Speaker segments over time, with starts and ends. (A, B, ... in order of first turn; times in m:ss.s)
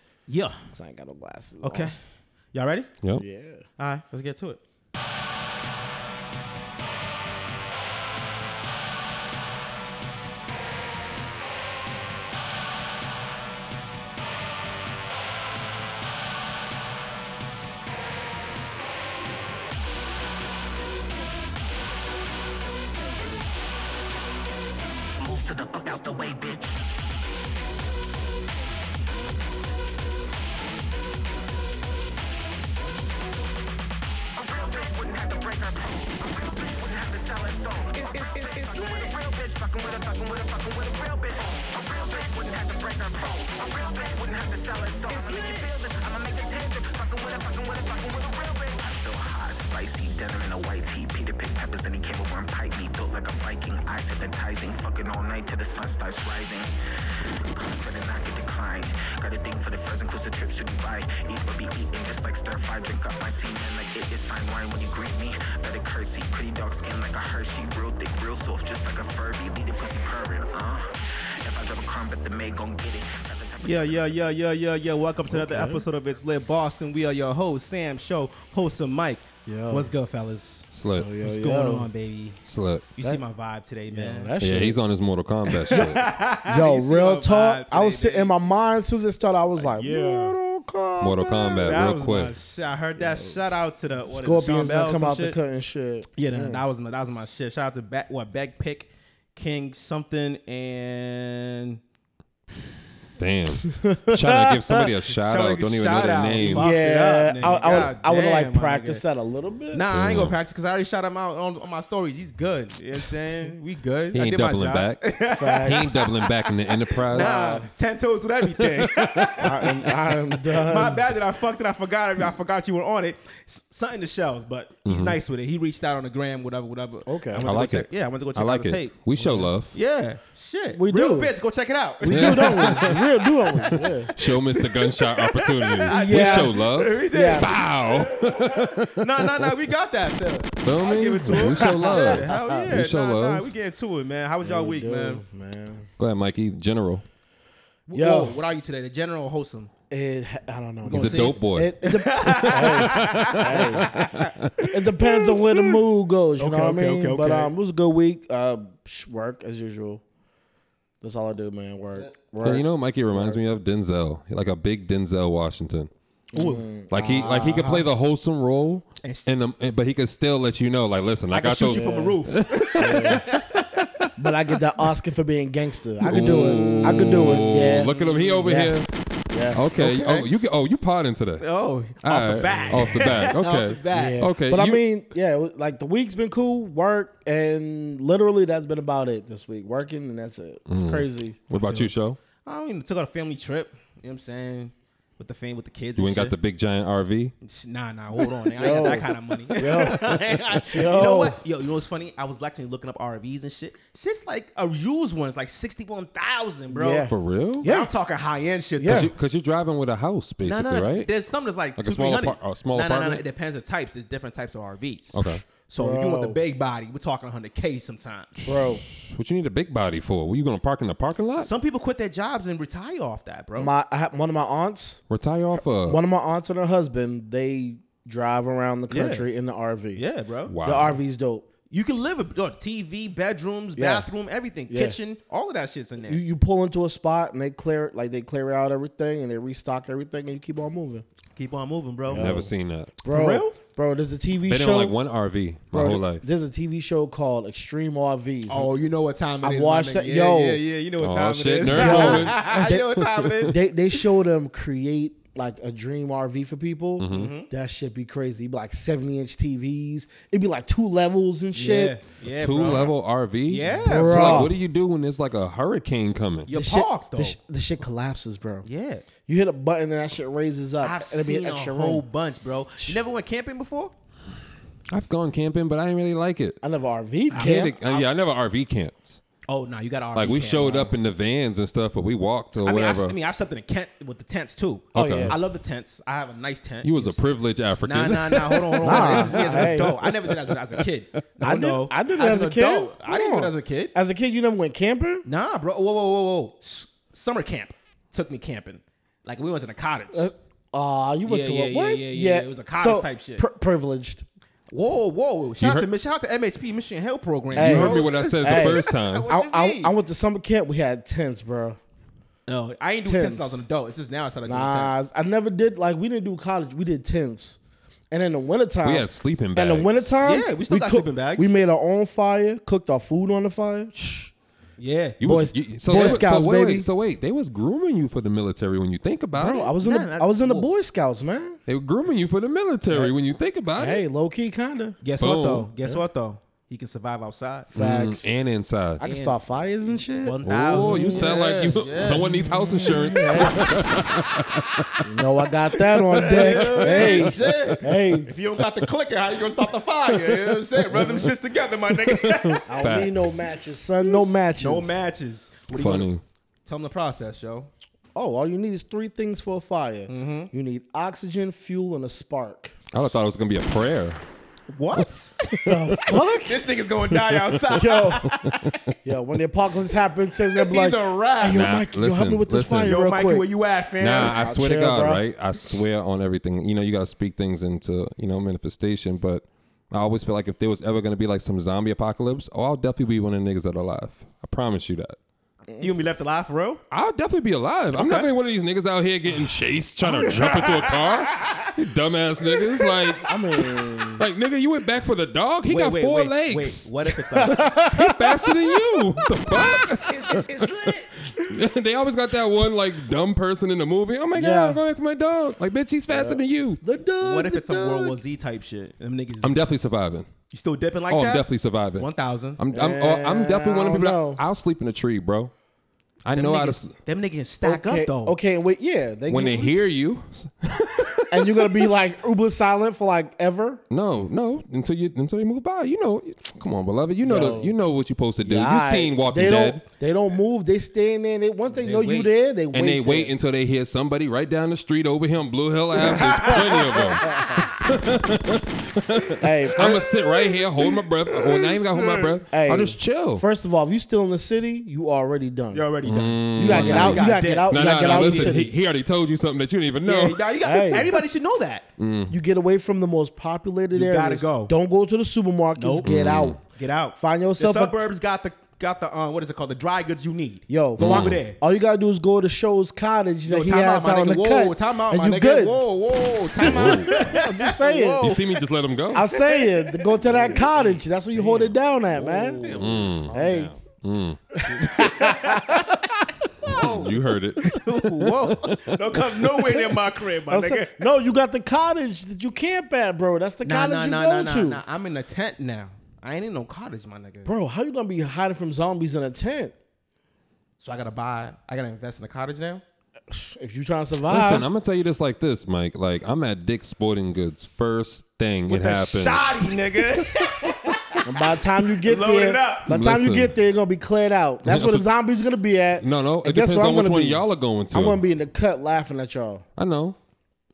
0:00.3-0:00.6 A
0:00.7-0:01.9 B
0:01.6-0:02.0 A
0:02.5-0:02.9 A
0:03.2-0:03.7 B
0:03.8-0:04.6 A
0:25.2-0:26.8 C
0:34.4-0:56.7 C
0:57.6-1:14.1 C
1:13.6-1:20.7 A
1:15.3-1:15.8 B
1:19.5-1:19.9 B
1:20.7-1:21.1 D
1:21.0-1:21.9 B
1:21.2-1:22.4 A
1:22.4-1:22.9 D
1:23.0-1:24.4 A
1:23.9-1:24.8 B
1:24.4-1:26.1 D
1:25.5-1:28.3 A
1:26.5-1:31.9 B
1:29.6-1:30.4 A
1:31.0-1:32.4 D
1:31.6-1:35.4 A
1:33.0-1:36.6 B
1:36.2-1:41.8 A
1:43.2-1:46.7 D
1:43.7-1:44.9 B
1:45.1-1:49.0 A
1:46.4-1:49.8 B
1:47.6-1:47.9 D
1:49.7-1:59.9 A
1:49.9-1:50.4 D
1:54.1-1:57.6 D
1:55.3-1:56.0 B
1:57.1-1:57.7 B
1:58.4-1:59.5 D
1:59.4-2:01.0 B
2:00.5-2:13.0 A
2:04.8-2:05.2 D
2:07.1-2:07.4 B
2:07.4-2:09.8 D
2:10.8-2:11.3 B
2:12.0-2:14.1 B
2:12.1-2:19.6 D
2:13.6-2:18.4 A
2:15.9-2:16.6 B
2:17.1-2:17.5 B
2:18.9-2:25.2 A
2:20.6-2:23.5 D
2:21.3-2:22.4 B
2:24.4-2:25.9 B
2:26.0-2:27.0 D
2:27.9-2:29.7 A
2:27.9-2:28.4 B
2:29.9-2:34.0 B
2:30.8-2:35.8 A
2:30.9-2:34.5 D
2:34.6-2:40.0 B
2:36.4-2:37.5 A
2:41.0-2:43.4 B
2:42.4-2:45.9 D
2:46.3-2:47.9 B
2:46.4-2:46.6 A
2:46.9-2:54.1 D
2:49.0-2:49.3 A
2:51.3-2:53.7 A
2:51.6-2:52.2 B
2:52.8-2:53.2 B
2:54.2-2:58.8 B
2:56.0-2:58.9 D
2:56.0-2:58.5 A
2:59.3-2:59.8 B
2:59.5-3:01.5 D
2:59.8-3:00.3 A
3:01.4-3:04.3 A
3:02.0-3:04.8 D
3:03.9-3:11.4 B
3:10.7-3:12.2 D
3:11.6-3:11.9 A
3:12.4-3:16.3 A
3:16.0-3:17.3 D
3:17.4-3:29.1 A
3:18.6-3:21.4 B
3:26.7-3:27.9 B
3:27.1-3:27.7 D
3:28.8-3:29.1 B
3:28.9-3:31.1 D
3:30.4-3:38.5 A
3:31.8-3:33.2 D
3:35.1-3:35.4 D
3:35.8-3:36.4 B
3:38.4-3:38.8 B
3:38.8-3:41.5 D
3:41.4-3:43.7 A
3:43.6-3:45.0 B
3:45.1-3:46.0 D
3:45.8-3:50.0 B
3:48.9-3:49.3 A
3:50.0-3:50.6 A
3:50.5-3:51.0 D
3:50.6-3:51.5 B
3:51.7-3:56.2 A
3:53.8-3:54.1 B
3:54.7-3:55.0 B
3:56.0-4:01.0 B
4:01.4-4:02.3 A
4:02.1-4:02.5 B
4:02.1-4:02.9 D
4:03.0-4:05.0 B
4:03.0-4:03.6 A
4:04.5-4:06.2 D
4:05.7-4:08.7 B
4:08.5-4:13.6 A
4:09.4-4:10.6 B
4:11.0-4:13.5 D
4:11.7-4:22.0 B
4:17.0-4:17.3 D
4:17.1-4:17.5 A
4:21.5-4:23.0 A
4:22.4-4:26.5 D
4:23.5-4:24.5 A
4:23.8-4:24.5 B
4:26.5-4:27.4 A
4:26.5-4:28.7 B
4:28.6-4:29.0 A
4:29.2-4:32.0 B
4:30.8-4:33.9 A
4:34.9-4:36.6 D
4:36.6-4:37.8 B
4:37.3-4:39.2 D
4:37.4-4:38.1 A
4:39.5-4:40.9 A
4:40.2-4:43.2 D
4:42.6-4:47.2 A
4:44.9-4:45.4 D
4:44.9-4:45.4 B
4:46.8-4:50.6 D
4:47.8-4:53.9 A
4:48.8-4:50.0 B
4:51.4-4:55.2 B
4:55.2-5:00.3 A
5:00.1-5:04.2 B
5:01.2-5:03.4 A
5:04.7-5:10.0 A
5:05.6-5:05.9 D
5:07.5-5:09.3 D
5:07.6-5:11.8 B
5:12.5-5:15.1 A
5:13.1-5:13.6 B
5:14.5-5:17.6 B
5:18.1-5:24.3 B
5:18.8-5:20.2 D
5:20.2-5:21.5 A
5:24.8-5:25.2 A
5:25.2-5:29.7 D
5:25.2-5:26.9 B
5:25.9-5:26.2 A
5:29.4-5:31.6 B
5:29.8-5:30.7 A
5:31.7-5:34.0 D
5:33.8-5:35.0 B
5:35.0-5:37.7 A
5:35.2-5:35.7 D
5:37.7-5:38.3 B
5:37.7-5:39.0 D
5:39.0-5:41.3 B
5:39.0-5:43.8 A
5:40.4-5:45.1 D
5:42.1-5:43.8 B
5:45.0-5:48.3 B
5:45.8-5:53.1 A
5:46.5-5:48.0 D
5:50.1-5:51.3 D
5:51.9-5:53.4 D
5:52.6-5:55.0 B
5:54.0-5:56.1 A
5:55.7-5:56.2 D
5:56.6-5:57.7 A
5:58.2-6:02.8 B
6:00.1-6:00.5 A
6:02.9-6:04.2 D
6:04.7-6:08.8 A
6:05.0-6:06.2 D
6:05.6-6:06.7 B
6:07.1-6:07.6 D
6:07.7-6:08.3 B
6:08.4-6:08.7 D
6:09.0-6:13.5 B
6:10.5-6:11.6 A
6:11.4-6:13.0 D
6:12.8-6:14.5 A
6:14.0-6:25.2 D
6:14.2-6:15.2 B
6:25.8-6:26.8 A
6:26.9-6:33.4 D
6:30.2-6:31.6 A
6:32.8-6:33.1 A
6:33.3-6:34.2 B
6:34.2-6:36.9 D
6:35.7-6:37.8 A
6:37.4-6:38.5 B
6:37.5-6:46.8 D
6:44.4-6:44.8 B
6:46.1-6:48.2 B
6:47.2-6:49.6 A
6:49.4-6:50.3 D
6:50.5-6:51.5 A
6:51.1-6:55.5 D
6:52.0-6:52.6 A
6:52.7-6:54.4 B
6:56.2-6:56.9 D
6:56.4-6:58.4 A
6:57.6-6:59.8 B
6:59.3-7:01.9 D
7:01.3-7:03.8 B
7:03.9-7:09.8 D
7:07.2-7:07.8 B
7:08.4-7:13.3 B
7:11.7-7:12.3 A
7:12.7-7:23.4 D
7:16.0-7:17.6 B
7:16.2-7:17.4 A
7:19.4-7:20.1 B
7:21.4-7:22.4 A
7:22.5-7:25.9 B
7:25.7-7:28.6 A
7:26.0-7:30.5 D
7:26.5-7:28.7 B
7:30.0-7:31.9 A
7:30.6-7:31.2 B
7:32.0-7:32.4 D
7:32.3-7:36.6 B
7:33.9-7:34.7 A
7:35.8-7:41.6 A
7:36.0-7:36.6 D
7:37.2-7:38.0 B
7:40.7-7:45.8 B
7:41.0-7:41.4 D
7:43.5-7:48.6 A
7:46.6-7:47.3 D
7:46.7-7:48.2 B
7:48.2-7:49.3 D
7:49.1-7:53.7 B
7:49.2-7:53.6 A
7:52.7-7:55.1 D
7:54.6-7:56.0 B
7:54.9-7:56.0 A
7:56.6-8:01.1 A
7:56.6-7:59.8 D
8:00.5-8:04.8 B
8:03.6-8:07.5 A
8:07.4-8:09.7 B
8:10.8-8:12.8 A
8:13.3-8:14.7 B
8:14.3-8:20.5 D
8:18.7-8:22.9 A
8:21.2-8:29.6 B
8:22.9-8:23.6 D
8:24.6-8:25.1 D
8:26.0-8:28.2 D
8:29.8-8:30.2 D